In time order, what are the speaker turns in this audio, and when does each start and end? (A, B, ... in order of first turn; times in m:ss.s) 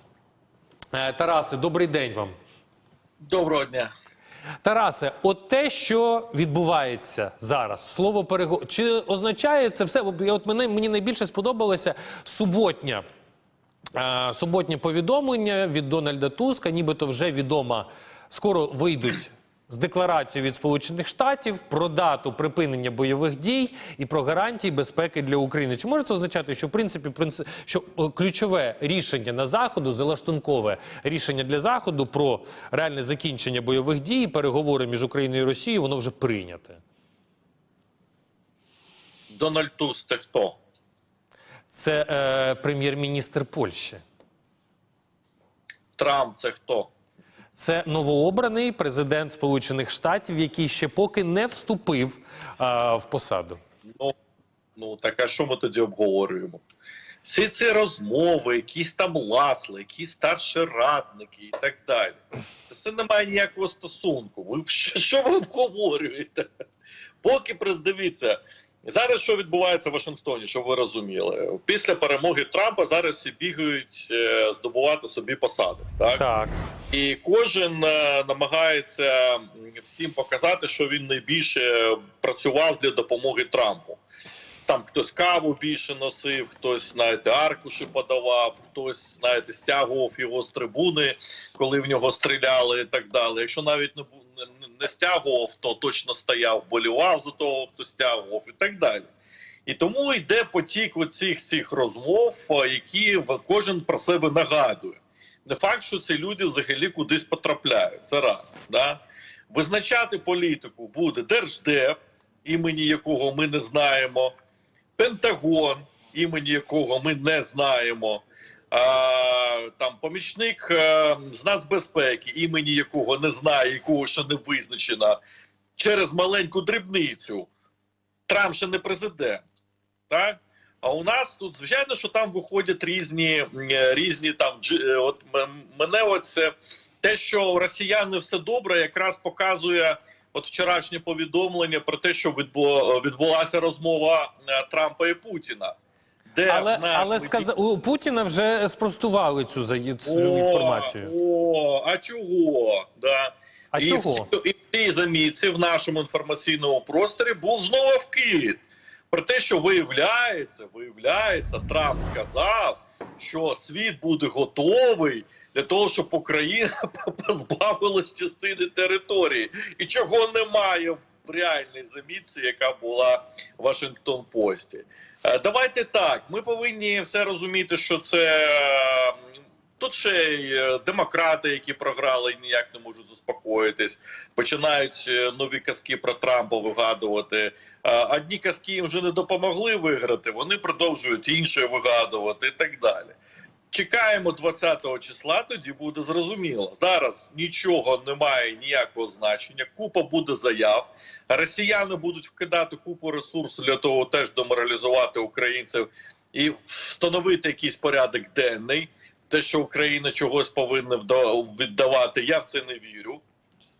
0:00.9-0:02.3 A
0:03.2-0:03.9 B
0:04.6-0:13.0 A
0:13.9-0:36.8 A
0:39.3-0:40.6 B
0:41.7-0:44.0 A
0:46.0-0:46.9 B
0:47.6-0:53.6 A
0:54.8-0:56.6 B
0:57.2-1:06.4 B
1:07.2-1:16.2 B
1:16.2-1:16.5 A
1:16.9-1:24.0 B
1:24.7-1:39.1 B
1:39.6-1:49.0 B
1:49.5-1:54.3 B
1:55.0-2:05.2 B
2:05.8-2:07.5 B
2:08.3-2:09.4 B
2:10.1-2:25.7 B
2:26.3-2:27.5 B
2:26.5-2:31.1 A
2:30.0-2:38.6 B
2:33.7-2:34.3 A
2:39.1-2:59.2 B
2:59.8-3:13.2 B
3:13.7-3:33.2 B